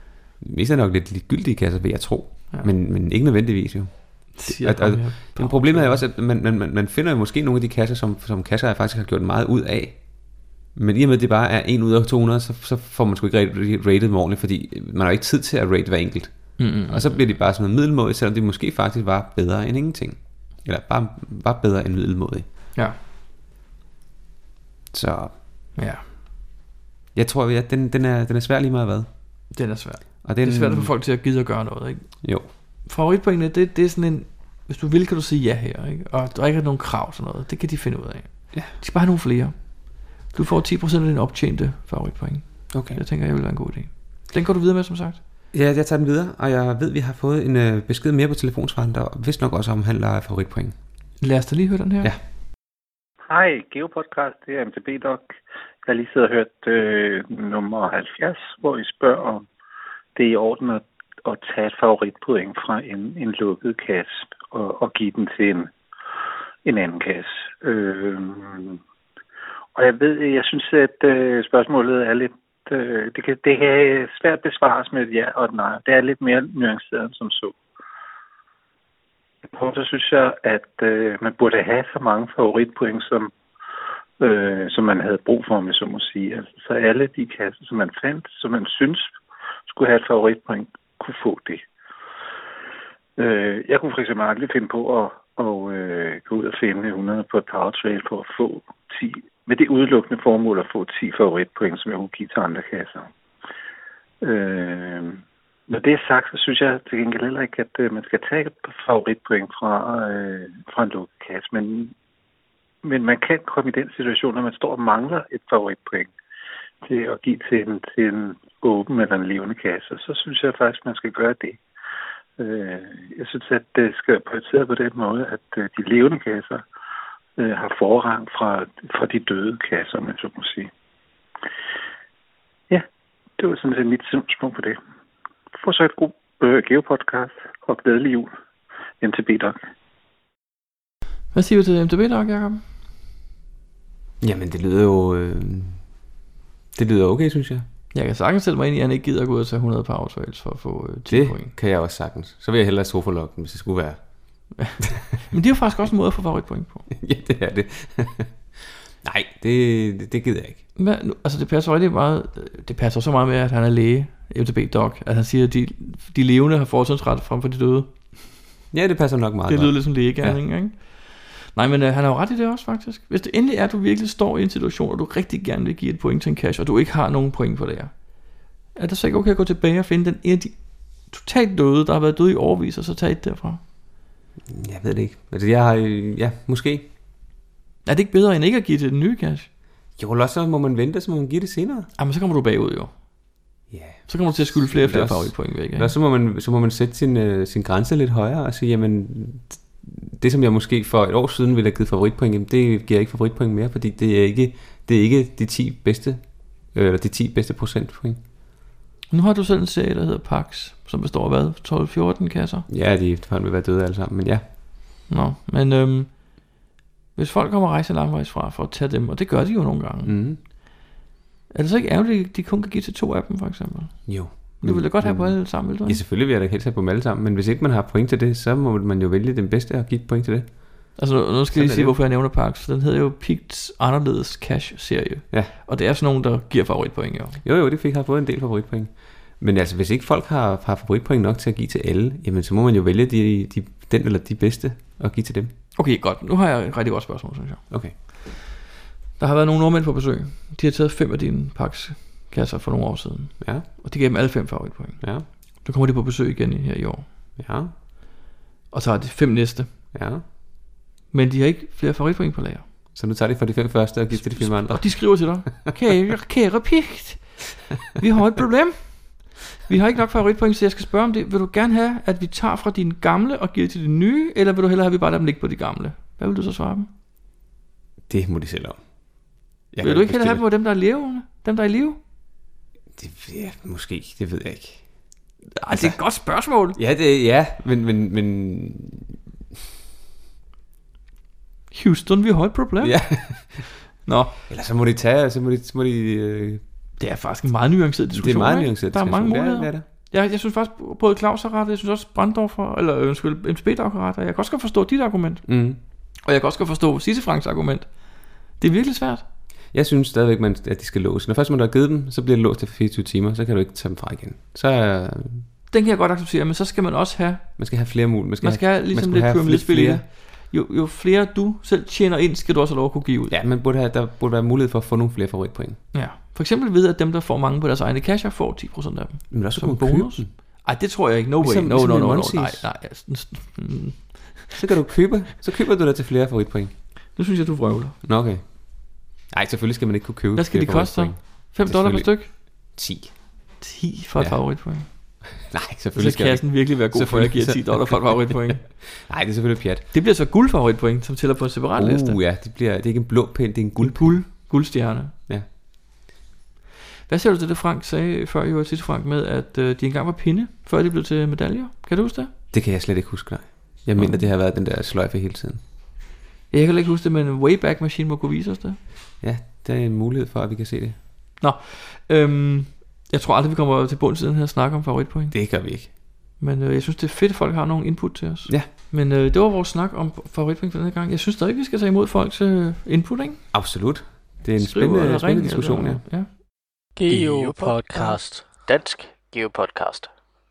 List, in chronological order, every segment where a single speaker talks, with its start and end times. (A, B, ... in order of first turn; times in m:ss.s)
0:00.4-0:22.4 A
0:04.4-0:06.0 B
0:16.6-0:17.2 B
0:24.9-0:25.4 A
0:25.8-0:26.0 B
0:27.2-0:29.1 A
0:29.5-0:45.2 B
0:30.2-0:30.9 A
0:32.2-0:32.5 A
0:42.7-0:43.0 A
0:45.5-0:50.8 A
0:51.2-0:52.1 B
0:53.3-0:59.5 C
1:00.2-1:05.7 C
1:06.6-1:08.8 C
1:09.8-1:17.6 C
1:19.4-1:23.3 C
1:24.2-1:29.1 C
1:29.7-1:31.7 C
1:33.2-1:43.1 C
1:44.2-1:51.9 C
1:52.8-1:56.1 C
1:56.8-2:01.6 C
2:02.4-2:06.7 C
2:07.4-2:10.7 C
2:13.4-2:14.8 C
2:15.6-2:18.3 C
2:19.0-2:19.6 C
2:21.3-2:22.6 B
2:24.2-2:25.8 A
2:26.7-2:27.6 A
2:27.9-2:31.5 B
2:31.1-2:34.5 A
2:35.3-2:36.9 B
2:36.9-2:38.3 A
2:39.0-2:40.6 A
2:40.8-2:48.2 B
2:48.7-2:50.4 A
2:49.5-2:58.2 B
2:58.7-3:03.6 B
3:04.5-3:06.9 A
3:07.8-3:09.5 B
3:10.0-3:11.9 A
3:12.0-3:12.9 B
3:13.7-3:28.2 A
3:14.1-3:15.9 B
3:29.1-3:32.7 B
3:32.7-3:34.4 A
3:35.1-3:36.6 B
3:37.2-3:40.2 B
3:40.0-3:40.4 A
3:41.5-3:46.0 B
3:44.1-3:51.0 A
3:51.0-3:57.4 B
3:51.5-3:52.0 A
3:57.4-4:05.5 A
4:05.8-4:07.6 B
4:07.7-4:08.0 A
4:09.2-4:17.1 B
4:13.4-4:13.7 A
4:15.0-4:15.3 A
4:17.4-4:17.7 A
4:18.7-4:19.7 B
4:19.9-4:20.2 A
4:21.1-4:22.6 B
4:22.9-4:25.7 A
4:24.1-4:36.9 B
4:38.1-4:38.8 A
4:39.7-4:40.4 A
4:39.8-4:42.0 B
4:43.0-4:44.9 A
4:45.6-4:46.8 B
4:45.7-4:46.0 A
4:46.8-4:49.2 A
4:51.7-4:53.0 B
4:52.8-4:53.7 A
4:54.1-4:54.4 B
4:54.5-4:56.6 A
4:57.0-5:05.4 B
4:58.1-4:59.8 A
5:05.5-5:05.8 A
5:06.2-5:09.2 B
5:09.7-5:15.5 A
5:15.7-5:17.6 B
5:17.6-5:20.0 A
5:18.4-5:23.4 B
5:23.3-5:25.8 A
5:25.9-5:34.6 B
5:29.3-5:30.3 A
5:31.4-5:32.7 A
5:34.6-5:36.7 A
5:37.2-5:38.0 B
5:38.0-5:43.2 A
5:40.4-5:42.3 B
5:43.6-5:44.9 B
5:44.2-5:49.9 A
5:45.9-5:48.7 B
5:49.9-5:52.2 B
5:51.8-5:54.5 A
5:53.8-5:55.1 B
5:57.1-6:02.3 B
6:02.5-6:05.6 A
6:04.0-6:04.3 B
6:06.5-6:08.8 B
6:09.2-6:11.0 A
6:11.4-6:15.4 B
6:15.3-6:15.9 A
6:16.4-6:23.4 B
6:23.5-6:26.0 A
6:24.6-6:26.3 B
6:27.0-6:30.1 D